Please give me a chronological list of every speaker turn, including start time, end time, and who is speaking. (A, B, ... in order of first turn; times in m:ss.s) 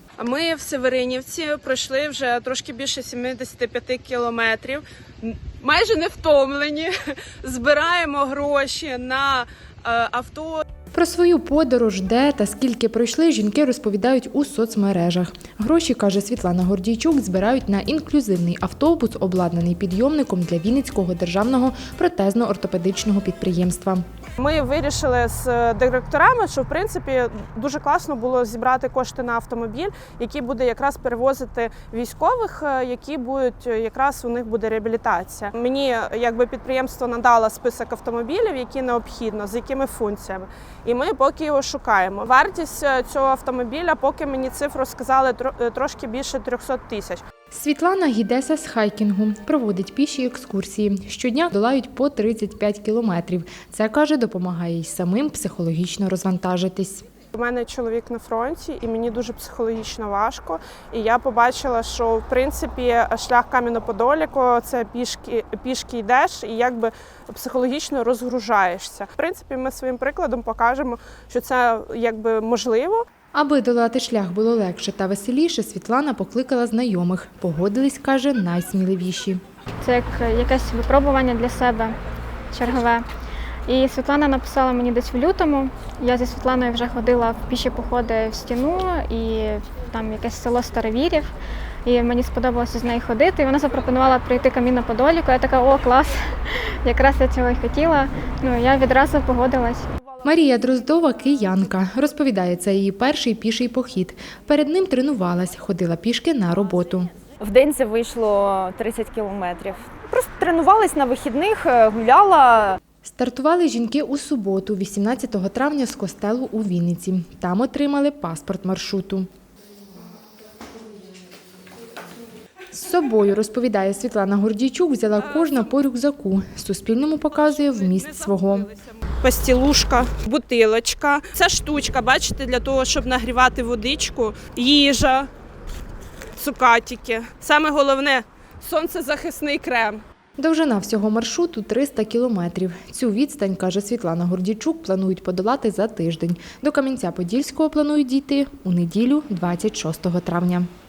0:00.2-0:10.6 A
0:10.9-0:24.0 B
0:24.4-0:47.2 A
0:47.5-0:57.0 B
0:57.4-1:13.0 A
1:13.3-1:19.4 B
1:19.8-1:22.0 C
1:22.5-1:23.0 C
1:23.7-1:31.3 C
1:31.8-1:39.9 C
1:40.2-1:47.1 B
1:47.4-1:52.8 D
1:53.0-1:59.3 B
2:02.7-2:08.7 B
2:05.2-2:05.8 A
2:07.3-2:15.3 A
2:16.4-2:20.0 A
2:20.4-2:30.7 B